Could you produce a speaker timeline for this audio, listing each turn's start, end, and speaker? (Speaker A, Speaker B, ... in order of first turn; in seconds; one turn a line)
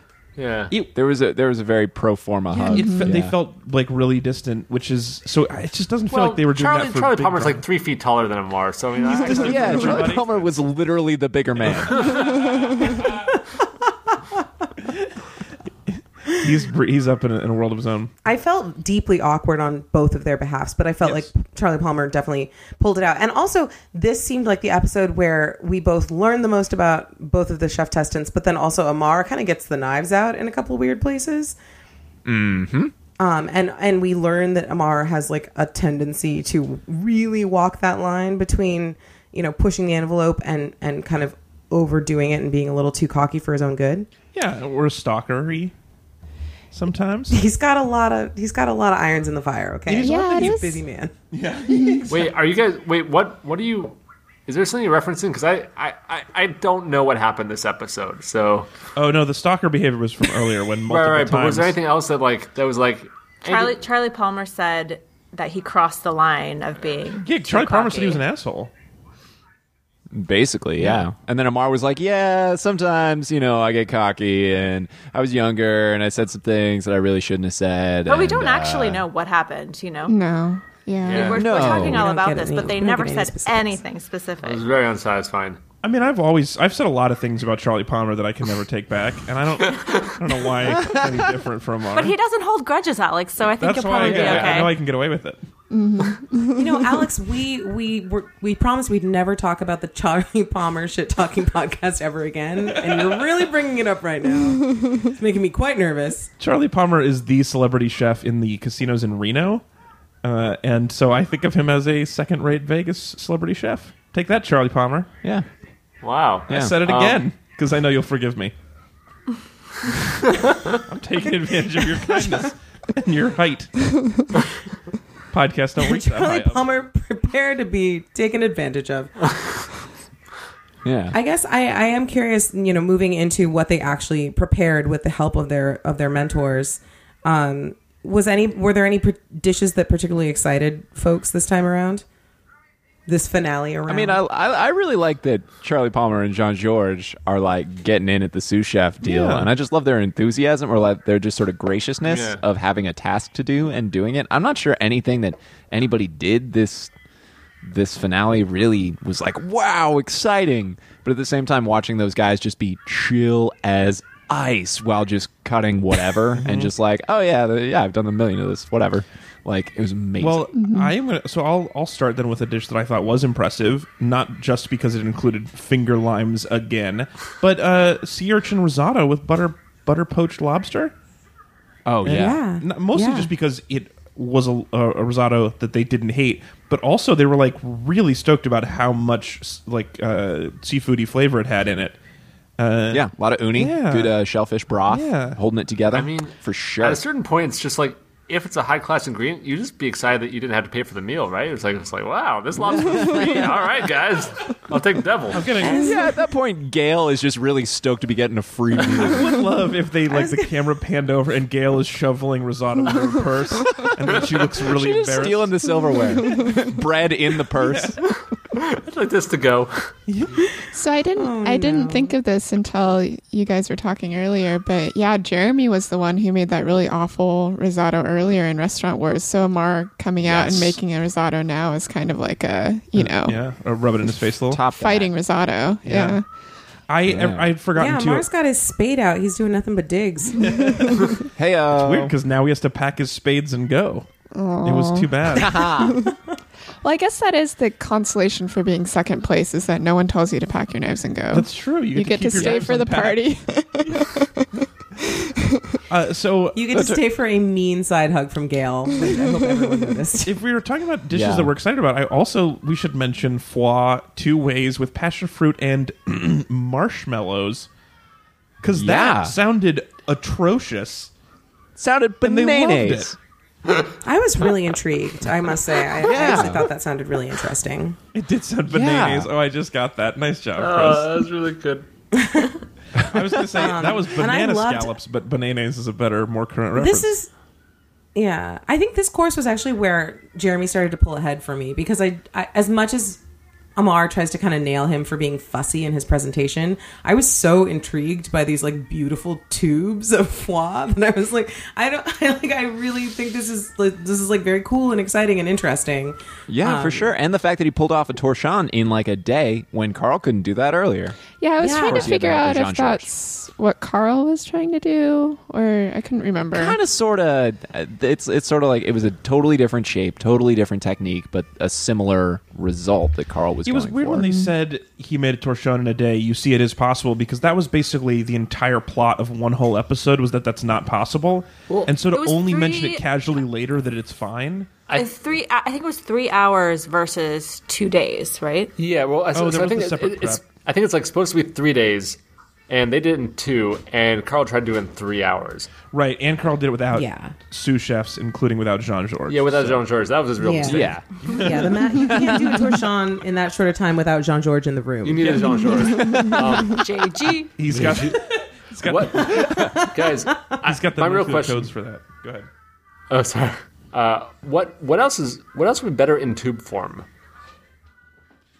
Speaker A: 0.4-0.7
Speaker B: 0.9-3.4
Speaker C: 2.6-3.2
Speaker D: 2.6-7.7
Speaker A: 6.1-10.1
Speaker D: 9.0-10.5
Speaker B: 9.2-12.3
Speaker A: 11.9-12.4
Speaker D: 12.0-12.3
Speaker D: 15.9-18.1
Speaker E: 18.2-31.6
Speaker B: 32.2-32.9
Speaker E: 33.2-44.1
Speaker D: 44.3-45.7
Speaker D: 46.7-47.4
Speaker E: 47.3-51.1
Speaker D: 49.9-50.6
Speaker C: 50.0-50.8
Speaker D: 51.3-52.4
Speaker C: 51.7-52.1
Speaker A: 52.1-58.7
Speaker D: 59.0-61.8
Speaker A: 60.9-63.8
Speaker F: 63.4-68.2
Speaker D: 67.2-68.7
Speaker B: 70.1-79.0
Speaker F: 78.1-80.1
Speaker C: 80.1-81.8
Speaker A: 81.0-81.5
Speaker F: 81.1-84.7
Speaker B: 81.4-82.1
Speaker E: 81.8-83.8
Speaker A: 84.4-85.6
Speaker D: 85.8-92.2
Speaker A: 89.7-90.2
Speaker F: 91.9-94.8
Speaker D: 93.6-95.4
Speaker A: 94.0-94.6
Speaker C: 95.7-97.1
Speaker E: 96.5-106.3
Speaker D: 102.8-103.1
Speaker D: 106.4-109.6
Speaker D: 110.2-115.1
Speaker A: 116.0-117.2
Speaker D: 116.5-118.5
Speaker B: 116.5-116.8
Speaker D: 120.9-123.7
Speaker D: 125.3-126.6
Speaker E: 125.8-129.1
Speaker B: 130.8-131.2
Speaker E: 131.1-142.0
Speaker E: 143.1-144.2
Speaker B: 143.9-156.9
Speaker D: 149.0-149.5
Speaker A: 152.0-152.4
Speaker B: 157.6-170.5
Speaker D: 166.4-166.7
Speaker D: 170.2-180.9
Speaker C: 170.6-170.9
Speaker B: 181.9-182.4
Speaker E: 182.1-183.3
Speaker D: 182.1-192.0
Speaker D: 192.6-194.2
Speaker B: 192.9-197.0
Speaker D: 194.9-195.4
Speaker A: 195.9-205.5
Speaker B: 202.7-203.6
Speaker D: 205.3-206.0
Speaker B: 205.6-209.4
Speaker D: 208.9-215.6
Speaker E: 210.1-210.7
Speaker B: 214.6-218.0
Speaker C: 215.9-216.7
Speaker D: 217.6-218.0
Speaker A: 218.5-219.9
Speaker D: 220.1-220.5
Speaker C: 220.7-233.4
Speaker E: 221.2-222.1
Speaker B: 230.2-230.8
Speaker D: 233.0-234.7
Speaker B: 234.5-235.1
Speaker C: 234.7-236.2
Speaker D: 235.8-236.2
Speaker D: 236.9-238.3
Speaker B: 237.1-237.5
Speaker E: 237.8-240.9
Speaker D: 240.4-244.1
Speaker B: 241.4-242.1
Speaker C: 244.3-246.2
Speaker D: 244.6-245.7
Speaker B: 245.3-246.0
Speaker C: 246.8-255.3
Speaker D: 251.3-253.3
Speaker B: 252.3-252.6
Speaker D: 255.9-257.0
Speaker E: 256.6-260.4
Speaker D: 260.2-267.7
Speaker B: 261.1-261.5
Speaker D: 268.6-271.1
Speaker B: 268.7-269.4
Speaker B: 271.8-273.2
Speaker D: 272.2-273.1
Speaker E: 274.0-278.0
Speaker B: 276.0-276.7
Speaker D: 278.1-281.2
Speaker B: 278.7-279.3
Speaker A: 280.6-281.9
Speaker E: 282.1-282.6
Speaker D: 283.0-287.1
Speaker E: 283.5-284.9
Speaker E: 286.8-287.3
Speaker E: 288.1-293.2
Speaker E: 293.8-307.1
Speaker B: 306.5-311.2
Speaker C: 311.4-316.8
Speaker E: 311.6-312.1
Speaker B: 311.7-313.1
Speaker B: 316.5-324.3
Speaker D: 323.7-334.7
Speaker C: 324.1-324.6
Speaker F: 332.0-333.1
Speaker F: 334.9-338.7
Speaker A: 338.8-345.7
Speaker D: 339.3-340.4
Speaker D: 345.9-349.8
Speaker E: 346.9-347.4
Speaker A: 349.3-351.1
Speaker E: 350.4-355.8
Speaker B: 350.6-351.0
Speaker D: 351.2-352.1
Speaker B: 352.0-352.6
Speaker A: 355.0-356.9
Speaker B: 355.8-356.6
Speaker F: 356.6-357.7
Speaker D: 357.6-359.8
Speaker A: 357.7-358.2
Speaker A: 358.8-361.7
Speaker E: 359.4-359.9
Speaker D: 360.6-362.5
Speaker A: 363.1-367.1